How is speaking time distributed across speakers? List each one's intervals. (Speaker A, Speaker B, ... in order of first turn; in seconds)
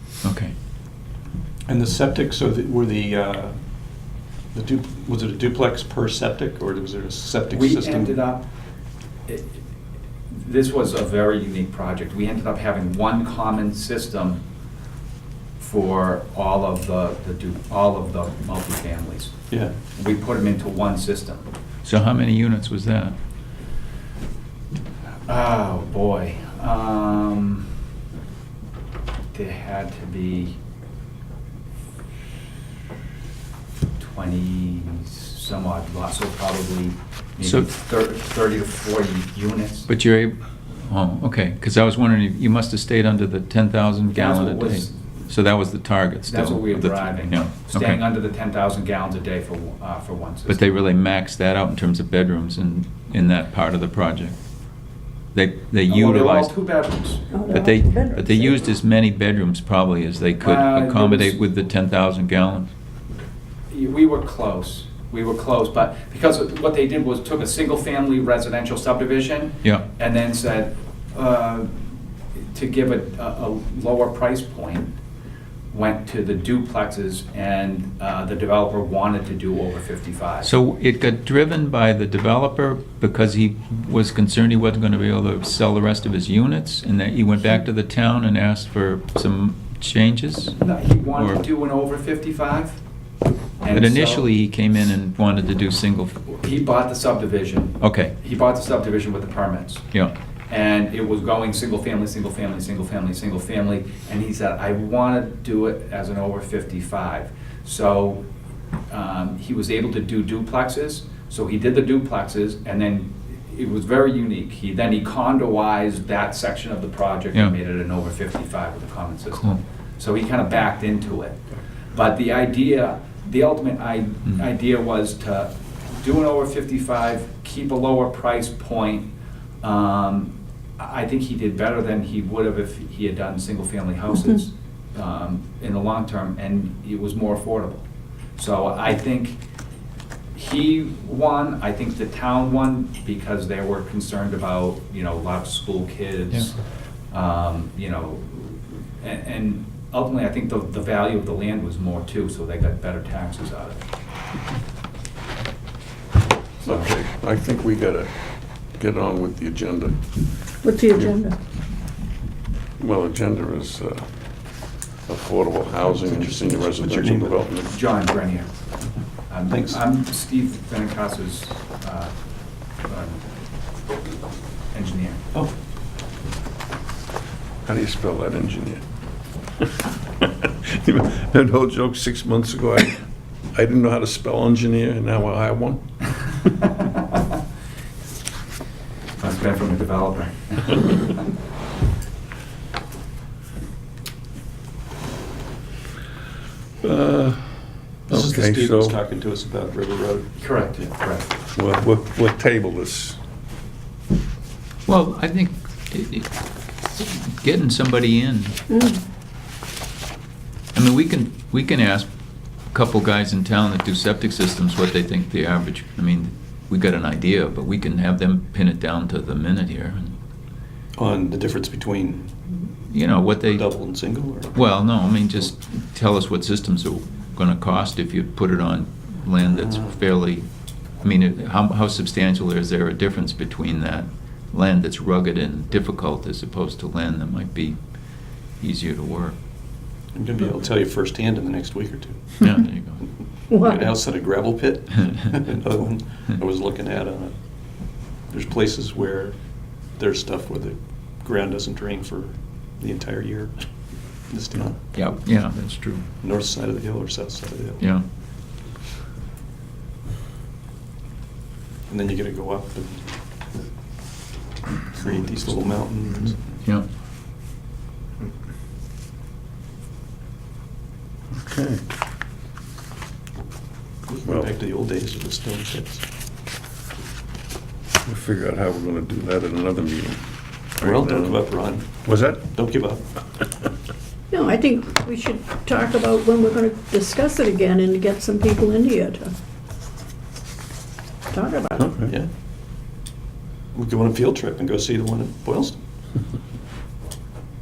Speaker A: 0.2-0.5, 21.8-23.1, 37.4-37.7, 39.9-48.0, 50.5-54.4, 55.3-56.5, 57.5-62.7, 80.4-90.6, 91.1-91.4, 93.7-96.3, 97.8-98.1, 119.3-119.6, 204.9-206.3, 206.9-208.6, 210.7-212.1, 212.7-220.1, 222.9-223.8, 224.5-230.5, 231.0-239.3, 242.4-243.1, 254.9-256.1, 257.8-258.0
Speaker B: 1.7-3.6, 4.5-8.2, 19.5-19.7, 165.8-167.4, 169.5-169.8, 198.1-200.9, 220.9-222.3, 223.5-224.6, 229.6-229.9, 240.1-242.5, 243.6-249.4, 249.9-253.7, 254.2-254.9, 256.2-257.8, 261.9-263.1, 264.9-266.4, 274.1-276.0, 280.8-283.0, 293.7-295.8
Speaker C: 7.5-8.4, 9.3-9.6, 10.3-14.4, 15.6-21.5, 25.3-27.7, 29.3-30.6, 34.0-39.9, 44.1-45.1, 46.3-50.7, 55.9-57.5, 60.4-61.4, 63.7-71.7, 72.4-74.9, 75.7-80.5, 90.6-92.8, 93.6-94.2, 96.3-99.8, 100.5-108.2, 108.9-121.4, 121.9-129.1, 129.6-137.8, 138.4-139.4, 140.3-146.6, 147.1-153.8, 156.6-156.9, 167.7-168.5, 169.3-172.1, 172.8-173.2, 174.7-175.2, 189.2-191.2, 200.4-201.3
Speaker D: 57.3-58.7, 160.6-161.3, 208.7-209.0, 243.5-244.0, 284.3-289.3, 291.3-292.0
Speaker E: 156.6-158.1, 158.8-160.0, 162.8-164.0, 165.1-167.7, 177.6-178.8, 179.6-183.0, 183.5-185.8, 196.8-197.5, 198.1-199.0, 201.5-203.2, 271.3-271.8, 278.0-280.2, 280.8-281.4, 282.0-282.5, 291.8-292.1